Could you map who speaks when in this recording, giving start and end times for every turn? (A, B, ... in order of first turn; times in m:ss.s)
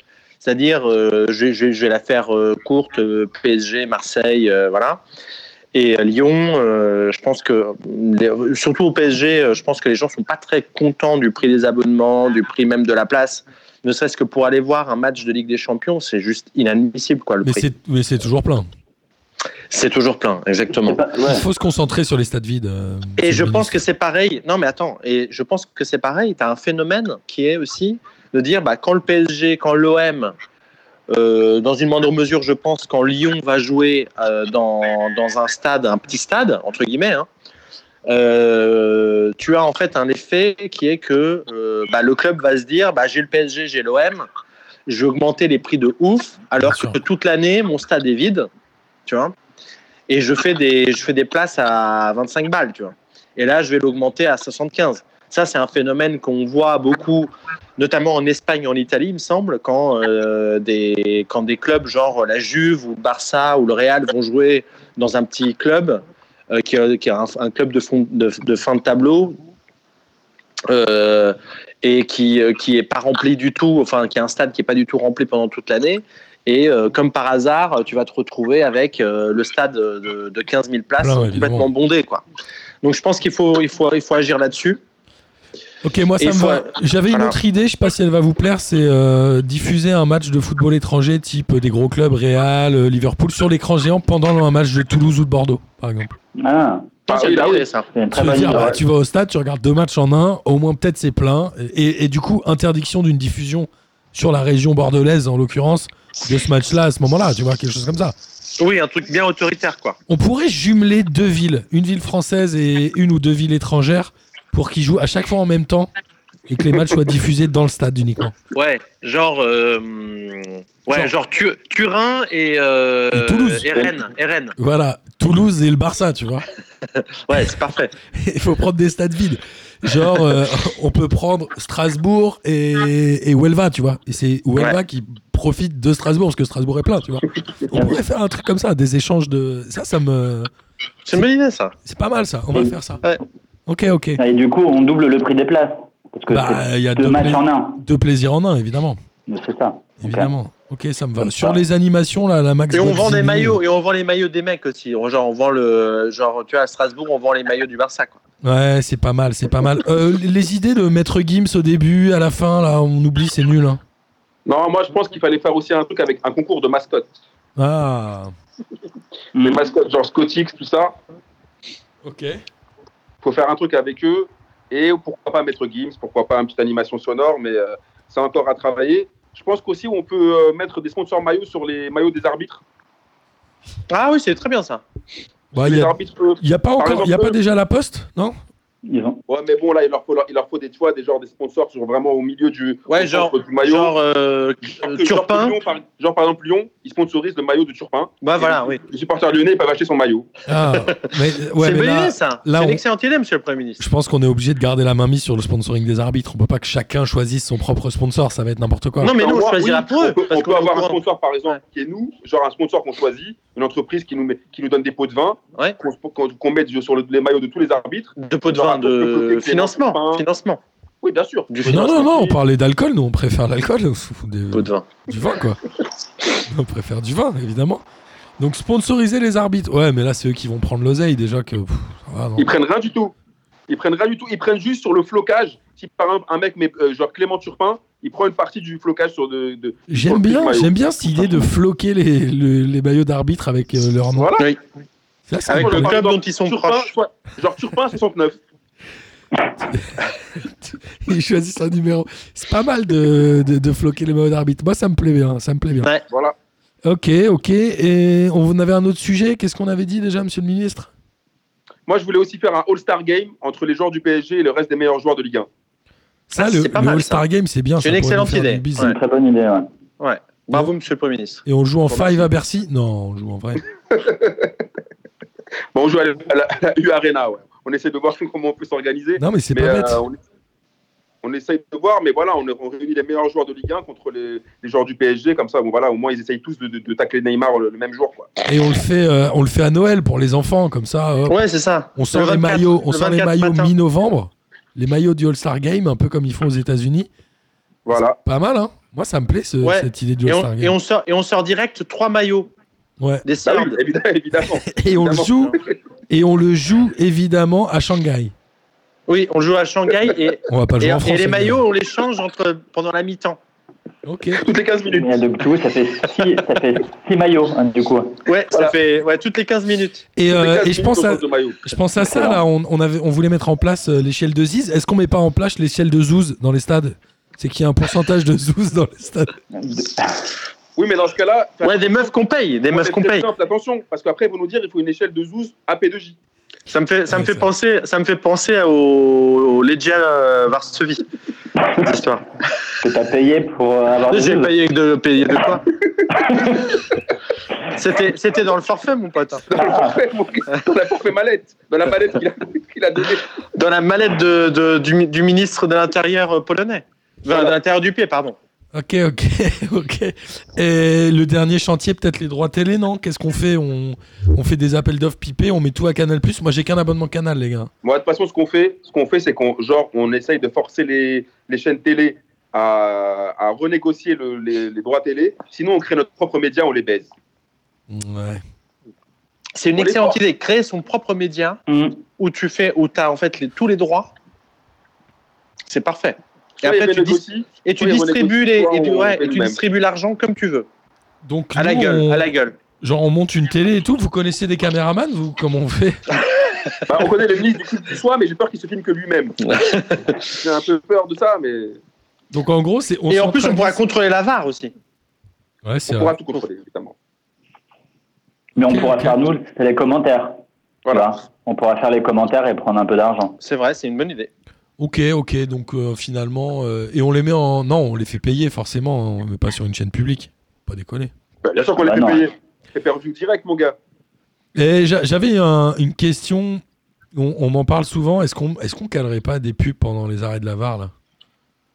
0:00.4-0:05.0 A
0:05.7-0:17.7 A
0:17.4-0:18.7 B
0:19.7-0:21.0 A
0:20.8-0:21.4 C
0:21.2-0:23.8 B
0:23.2-0:30.3 A
0:31.1-0:37.3 A
0:38.1-0:44.3 A
0:44.9-0:48.5 A
0:46.6-0:47.0 B
0:49.1-0:49.4 A
0:50.1-1:09.4 A
1:10.7-1:22.2 A
1:21.0-1:21.7 B
1:22.8-1:24.8 A
1:25.8-1:36.1 B
1:26.2-1:27.4 A
1:36.4-1:36.9 C
1:37.1-1:37.9 A
1:37.1-1:37.7 D
1:37.9-1:38.8 C
1:38.1-1:48.1 B
1:38.2-1:38.8 D
1:48.6-1:50.0 A
1:50.1-1:55.9 B
1:56.5-1:58.4 B
1:58.5-2:04.5 A
2:03.1-2:03.7 B
2:04.6-2:06.5 B
2:07.3-2:07.9 A
2:08.1-2:20.5 B
2:17.7-2:18.0 C
2:21.1-2:21.7 A
2:21.8-2:23.0 B
2:23.7-2:24.2 B
2:24.2-2:27.8 C
2:26.3-2:29.0 B
2:29.3-2:30.3 C
2:30.0-2:33.6 B
2:31.2-2:31.6 C
2:32.7-2:38.2 A
2:38.4-2:43.8 B
2:44.5-2:47.1 D
2:47.6-2:48.3 B
2:49.4-2:49.6 C
2:49.4-2:51.0 D
2:52.0-2:52.4 B
2:53.2-3:02.6 D
3:03.9-3:04.8 A
3:05.5-3:07.4 D
3:05.5-3:08.4 B
3:08.9-3:09.2 C
3:09.3-3:13.9 D
3:12.9-3:15.6 A
3:14.8-3:20.3 D
3:18.2-3:18.8 A
3:20.5-3:22.8 B
3:21.6-3:23.8 A
3:23.8-3:29.2 B
3:29.0-3:31.0 A
3:29.2-3:40.2 D
3:38.2-3:40.6 A
3:41.0-3:42.4 D
3:41.5-3:42.0 A
3:41.7-3:45.6 B
3:44.5-3:44.9 A
3:46.5-3:47.8 B
3:48.4-3:52.5 B
3:52.4-3:53.1 D
3:53.7-4:00.7 D
3:59.9-4:04.3 B
4:04.2-4:04.5 D
4:05.3-4:06.0 B
4:05.5-4:07.0 A
4:05.5-4:08.4 D
4:09.6-4:15.9 B
4:16.1-4:16.4 D
4:16.8-4:20.9 B
4:21.9-4:25.5 D
4:26.3-4:29.0 B
4:26.4-4:27.2 A
4:27.8-4:29.0 A
4:28.8-4:29.7 C
4:30.0-4:31.4 A
4:31.5-4:33.6 B
4:31.9-4:32.3 D
4:33.9-4:34.5 D
4:35.7-4:40.2 D
4:39.2-4:40.0 B
4:41.2-4:48.3 D
4:48.4-4:51.4 B
4:51.3-4:53.7 A
4:52.0-4:57.1 B
4:57.9-4:58.2 D
4:58.2-5:00.8 B
4:59.6-5:02.5 A
5:03.0-5:03.3 B
5:03.2-5:03.8 A
5:03.5-5:05.6 D
5:04.6-5:05.6 B
5:06.1-5:08.3 B
5:09.1-5:13.4 A
5:10.5-5:11.6 B
5:14.0-5:14.4 B
5:14.4-5:15.2 D
5:14.9-5:18.2 C
5:18.3-5:20.0 A
5:20.2-5:29.4 B
5:20.3-5:21.6 D
5:22.1-5:22.4 C
5:29.5-5:30.3 C
5:30.8-5:32.1 D
5:31.6-5:33.3 A
5:32.7-5:36.2 D
5:36.7-5:41.0 A
5:37.1-5:37.5 B
5:41.7-5:42.2 A
5:42.8-5:44.5 C
5:44.1-5:45.6 A
5:47.7-5:49.5 A
5:49.5-5:53.3 D
5:49.6-5:49.9 C
5:53.5-5:58.4 A
5:58.7-6:07.7 B
6:07.8-6:17.1 D
6:17.9-6:18.4 B
6:19.6-6:21.6 A
6:19.8-6:20.2 D
6:21.7-6:22.0 C
6:22.2-6:24.1 A
6:25.7-6:30.7 A
6:26.6-6:29.6 D
6:31.2-6:36.0 B
6:31.6-6:32.6 A
6:36.9-6:39.5 D
6:39.4-6:40.2 A
6:40.4-6:41.8 D
6:42.3-6:43.8 B
6:43.1-6:44.7 A
6:45.6-6:46.2 B
6:45.9-6:47.0 D
6:48.6-6:50.4 C
6:48.7-6:49.2 B
6:50.9-6:51.1 D
6:50.9-6:53.4 C
6:53.4-6:54.3 A
6:54.8-7:01.1 B
7:01.4-7:03.8 D
7:01.8-7:02.2 C
7:04.6-7:06.6 B
7:07.1-7:10.9 B